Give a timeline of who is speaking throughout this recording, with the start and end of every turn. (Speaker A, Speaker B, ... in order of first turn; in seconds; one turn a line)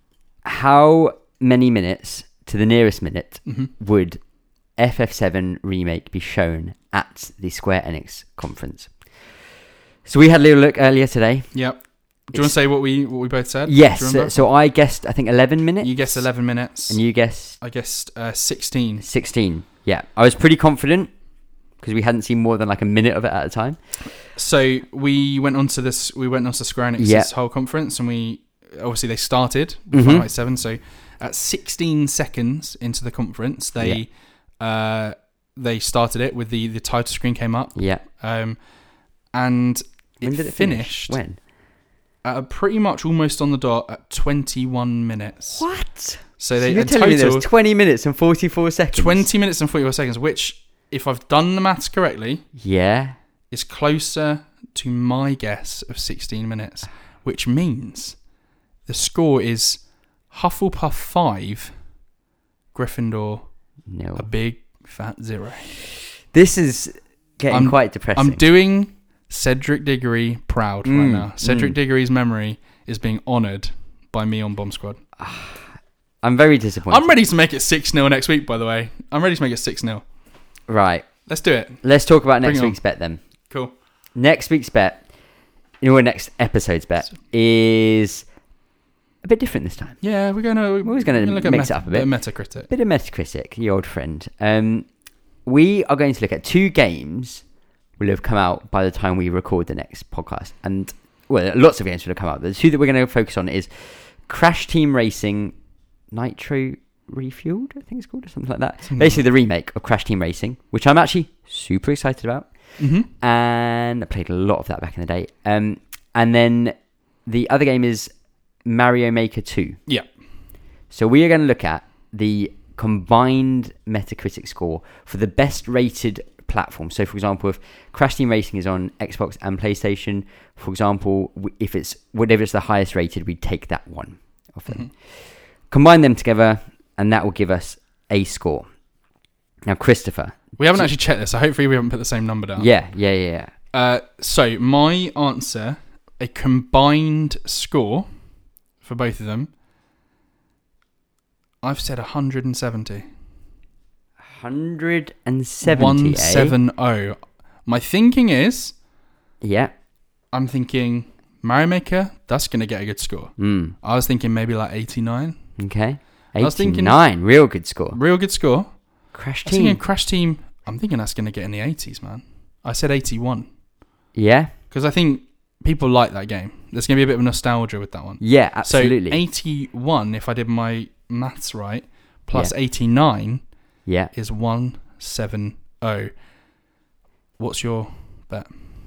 Speaker A: 0.4-4.2
Speaker B: 3.5-3.7
Speaker A: 4.8-8.9
Speaker A: 10.1-11.5
Speaker B: 11.5-14.4
Speaker A: 13.7-16.2
Speaker B: 15.8-17.0
Speaker A: 16.9-17.6
Speaker B: 17.6-19.1
Speaker A: 19.0-21.1
Speaker A: 21.8-23.8
Speaker B: 24.2-34.1
Speaker A: 27.0-27.3
Speaker A: 29.9-30.3
Speaker B: 34.6-38.6
Speaker A: 37.8-38.0
Speaker B: 39.3-41.2
Speaker A: 40.2-41.4
Speaker B: 42.2-45.6
Speaker A: 45.5-49.3
Speaker B: 46.4-47.5
Speaker B: 48.9-52.4
Speaker A: 52.6-53.1
Speaker B: 53.5-58.2
Speaker B: 58.9-61.7
Speaker B: 62.7-63.4
Speaker A: 63.9-64.3
Speaker B: 64.2-65.8
Speaker A: 66.3-68.4
Speaker B: 67.5-75.0
Speaker A: 70.8-71.8
Speaker A: 75.2-75.7
Speaker A: 76.2-77.1
Speaker B: 76.9-80.0
Speaker A: 80.7-81.1
Speaker B: 81.3-81.8
Speaker A: 81.8-83.2
Speaker B: 82.4-82.8
Speaker A: 84.2-85.0
Speaker A: 85.8-88.2
Speaker A: 89.2-90.0
Speaker B: 90.0-92.7
Speaker A: 90.8-92.1
Speaker A: 92.7-94.9
Speaker A: 95.4-97.4
Speaker A: 98.0-105.5
Speaker A: 106.1-112.5
Speaker B: 108.8-109.2
Speaker B: 112.8-113.1
Speaker A: 113.1-118.1
Speaker A: 118.6-119.8
Speaker A: 120.9-135.0
Speaker A: 135.7-138.7
Speaker A: 139.7-140.9
Speaker B: 140.6-142.7
Speaker A: 142.6-143.5
Speaker B: 143.7-148.1
Speaker B: 148.8-149.5
Speaker B: 151.6-153.1
Speaker A: 154.2-156.6
Speaker B: 155.6-158.7
Speaker A: 159.4-159.7
Speaker B: 160.3-165.4
Speaker A: 163.4-163.7
Speaker A: 165.6-168.0
Speaker B: 166.4-167.0
Speaker B: 167.9-168.8
Speaker A: 169.1-169.8
Speaker B: 169.4-173.5
Speaker A: 174.1-174.5
Speaker B: 174.7-183.4
Speaker A: 178.2-179.2
Speaker A: 183.8-184.1
Speaker B: 184.1-186.1
Speaker B: 187.4-188.5